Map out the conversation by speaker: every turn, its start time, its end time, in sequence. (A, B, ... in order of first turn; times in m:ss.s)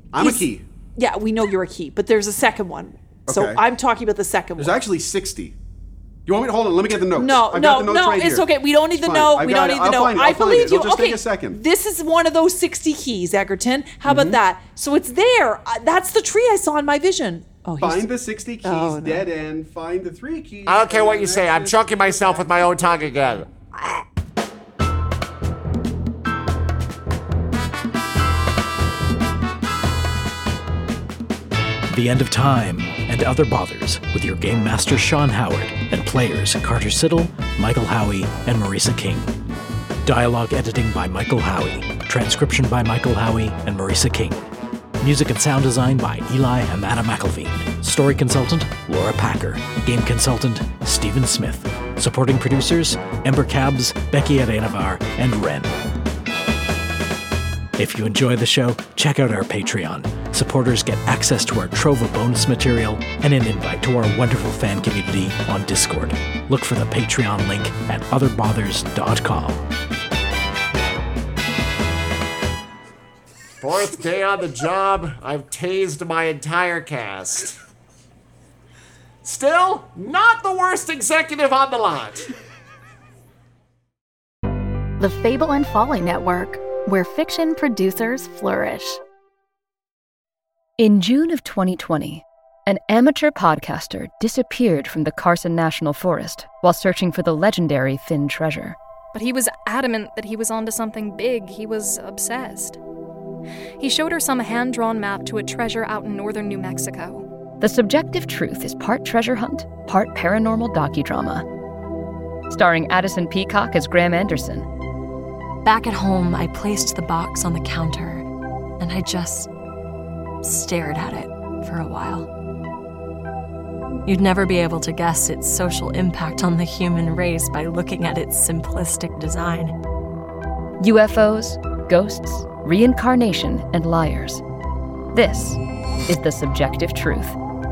0:00.1-0:00.6 A
0:00.2-0:04.8 B
0:03.3-0:03.6 A
0:04.6-0:05.6 A
0:06.3-0:11.6 A
0:07.2-0:18.1 B
0:14.1-0:14.4 A
0:17.8-0:22.7 A
0:18.6-0:19.3 B
0:20.7-0:23.5 C
0:31.9-0:39.3 D
0:40.0-0:44.4 D
0:45.0-0:55.8 D
0:57.8-1:09.6 D
1:13.6-1:17.6 C
1:19.2-1:22.3 C
1:25.0-1:29.0 E
1:30.8-1:38.8 F
1:39.1-1:42.8 G
1:43.8-1:47.3 G
1:47.6-1:51.4 F
1:52.5-1:54.7 F
1:55.6-1:58.2 H
1:58.8-1:59.5 H
2:00.4-2:02.3 H
2:04.0-2:09.8 H
2:10.8-2:14.4 F
2:15.1-2:17.4 F